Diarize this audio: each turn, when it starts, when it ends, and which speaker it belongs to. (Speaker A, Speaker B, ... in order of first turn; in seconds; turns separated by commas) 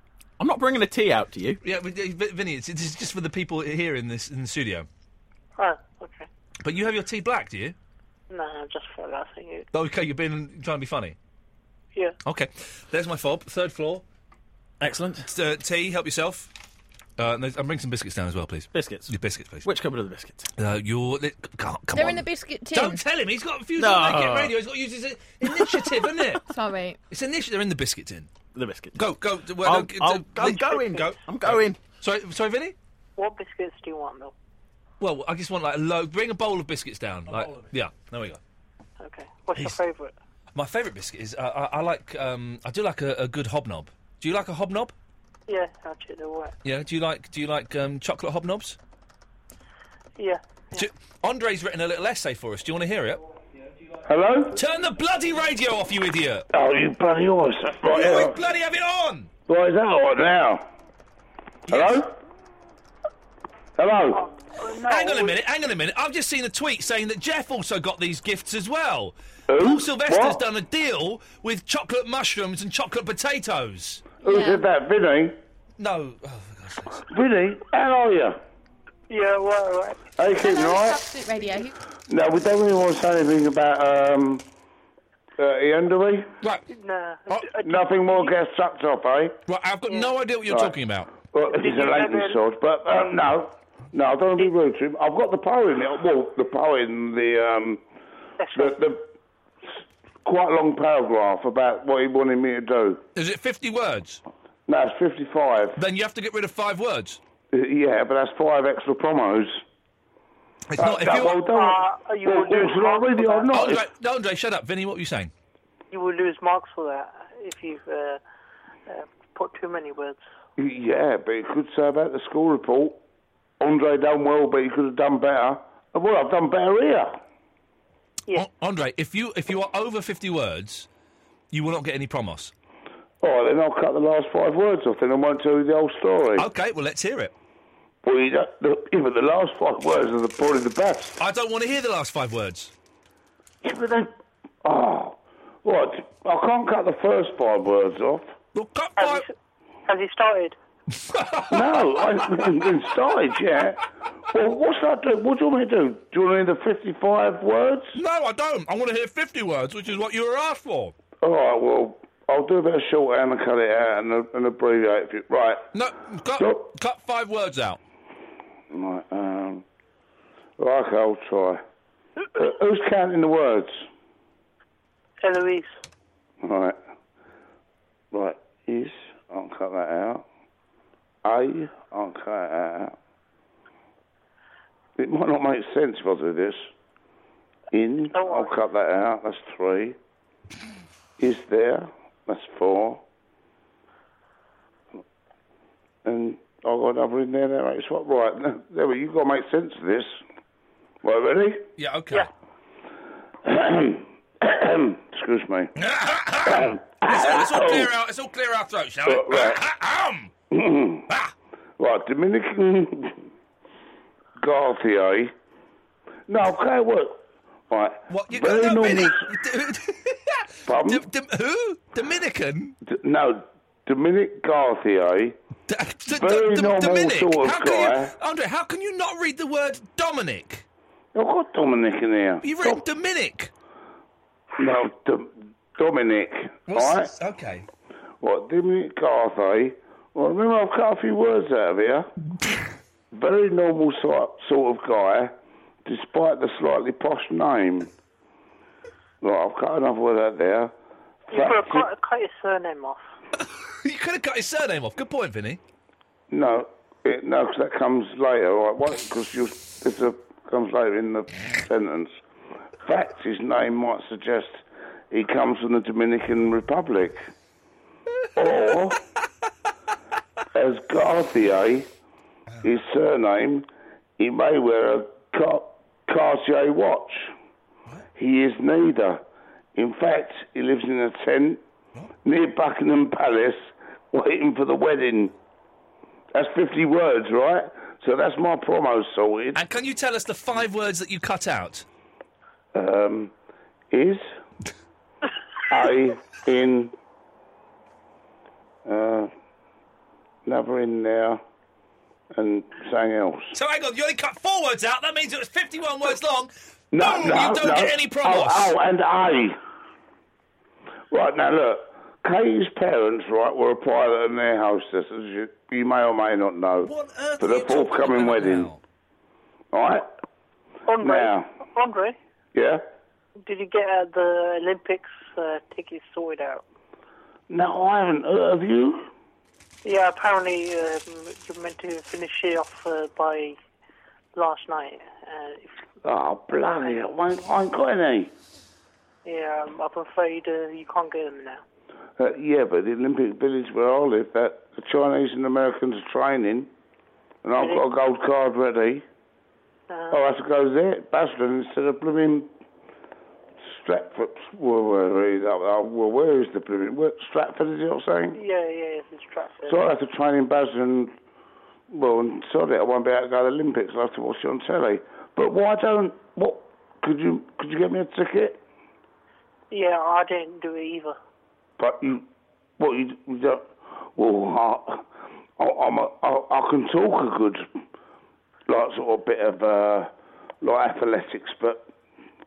Speaker A: 0.4-1.6, Speaker B: 1.6-4.9, Speaker C: 5.6-6.3, Speaker B: 6.6-7.8, Speaker C: 8.3-9.7, Speaker B: 9.7-11.2, Speaker B: 12.2-14.0, Speaker A: 14.8-15.3, Speaker B: 15.2-16.5, Speaker B: 17.2-19.7, Speaker A: 18.7-19.1, Speaker A: 19.6-20.5, Speaker B: 20.6-26.4, Speaker D: 21.9-23.0, Speaker A: 23.8-24.5, Speaker A: 25.5-26.1, Speaker D: 26.4-27.0, Speaker B: 27.1-28.3, Speaker A: 28.5-29.0, Speaker B: 28.9-32.7, Speaker A: 29.6-31.8, Speaker C: 33.2-34.3, Speaker B: 35.0-38.4, Speaker C: 39.0-40.1, Speaker B: 39.5-39.8, Speaker B: 40.5-44.9, Speaker C: 45.5-46.5, Speaker B: 46.6-48.8, Speaker C: 50.2-50.8, Speaker B: 50.7-53.2, Speaker E: 54.0-54.5, Speaker B: 54.5-56.5, Speaker E: 56.5-58.4, Speaker B: 57.8-59.3, Speaker E: 59.5-60.6, Speaker B: 61.7-62.0, Speaker E: 61.7-62.1, Speaker E: 63.8-64.3, Speaker C: 64.1-65.3, Speaker B: 64.8-74.0, Speaker E: 69.5-70.4, Speaker D: 74.2-74.6, Speaker E: 74.2-75.4, Speaker B: 75.8-77.0, Speaker E: 77.1-78.4, Speaker C: 79.1-80.0, Speaker E: 80.2-81.0, Speaker D: 80.3-81.8, Speaker E: 82.1-84.5, Speaker E: 85.4-86.3, Speaker C: 86.7-88.3, Speaker E: 87.6-89.4, Speaker B: 89.5-91.1, Speaker E: 90.5-97.8, Speaker C: 91.5-92.4, Speaker C: 98.4-98.8, Speaker E: 98.5-99.0, Speaker E: 100.2-103.0, Speaker B: 103.1-104.2, Speaker E: 104.7-105.8, Speaker B: 105.8-107.2, Speaker E: 107.5-109.6, Speaker B: 110.7-111.4, Speaker E: 110.8-113.8, Speaker C: 111.3-113.5, Speaker B: 113.5-115.3, Speaker C: 115.9-118.2, Speaker C: 118.9-120.2, Speaker E: 120.6-123.0, Speaker E: 123.6-127.2, Speaker B: 128.3-130.9, Speaker B: 131.5-132.5, Speaker E: 133.2-136.5, Speaker B: 136.4-137.3, Speaker E: 138.0-141.2, Speaker B: 141.2-142.7, Speaker E: 143.6-144.1, Speaker E: 144.6-148.3, Speaker B: 148.5-149.2, Speaker C: 149.0-149.3, Speaker C: 149.9-150.6, Speaker B: 151.0-151.8, Speaker E: 151.5-153.8, Speaker E: 154.3-157.9, Speaker B: 157.9-160.9, Speaker E: 161.2-165.7, Speaker B: 165.7-167.8, Speaker E: 166.3-166.6, Speaker E: 168.7-169.6, Speaker E: 170.6-171.6, Speaker E: 172.3-173.8, Speaker C: 175.2-175.7, Speaker E: 176.4-176.8, Speaker E: 178.1-180.2, Speaker E: 181.2-182.9, Speaker E: 185.0-186.7, Speaker E: 187.7-189.9, Speaker C: 188.1-188.6, Speaker E: 191.2-193.0, Speaker E: 196.0-200.2, Speaker E: 201.0-201.7, Speaker B: 201.8-202.3, Speaker E: 203.4-205.7, Speaker B: 205.8-210.3, Speaker E: 206.4-207.9, Speaker E: 209.1-209.6, Speaker E: 210.5-211.1, Speaker E: 211.8-213.2, Speaker E: 214.4-215.3, Speaker E: 216.3-219.3, Speaker B: 218.1-222.8, Speaker E: 220.7-221.0, Speaker E: 222.8-225.4, Speaker B: 225.7-230.6, Speaker E: 226.1-228.1, Speaker E: 231.1-232.8, Speaker B: 232.4-233.5, Speaker E: 234.6-237.1, Speaker B: 236.7-237.7, Speaker E: 238.2-242.1, Speaker E: 243.1-245.3, Speaker E: 245.8-247.9, Speaker E: 249.2-250.7, Speaker E: 251.3-251.9, Speaker C: 251.3-253.0, Speaker B: 253.4-255.6, Speaker E: 256.3-262.2, Speaker E: 262.8-267.3, Speaker E: 268.4-269.0, Speaker E: 270.5-271.9, Speaker E: 272.6-273.7, Speaker E: 274.2-277.3, Speaker E: 278.1-279.2, Speaker E: 279.7-281.6, Speaker E: 282.2-285.3, Speaker E: 286.3-289.6, Speaker B: 289.5-291.9, Speaker E: 292.7-293.3, Speaker E: 293.9-294.2, Speaker E: 295.7-296.9, Speaker E: 298.8-299.3, Speaker E: 300.4-301.4, Speaker E: 302.3-303.5, Speaker B: 303.5-308.7, Speaker E: 306.9-309.6, Speaker E: 311.1-318.7, Speaker B: 316.8-318.8, Speaker E: 319.7-320.1, Speaker C: 320.9-322.1, Speaker E: 321.0-321.5, Speaker E: 322.5-322.8, Speaker C: 323.4-326.6, Speaker E: 327.5-329.1, Speaker C: 329.8-333.6, Speaker C: 334.4-335.8, Speaker E: 336.0-338.3, Speaker C: 339.2-341.6, Speaker E: 342.2-346.7, Speaker E: 347.4-349.0, Speaker C: 347.6-347.8, Speaker C: 349.9-350.2, Speaker E: 350.1-352.5, Speaker E: 353.6-358.4, Speaker C: 358.3-359.8, Speaker E: 359.6-361.1, Speaker E: 361.9-368.6, Speaker C: 369.7-371.2, Speaker E: 371.8-372.2, Speaker E: 372.8-375.1, Speaker E: 375.6-377.6, Speaker E: 378.7-381.9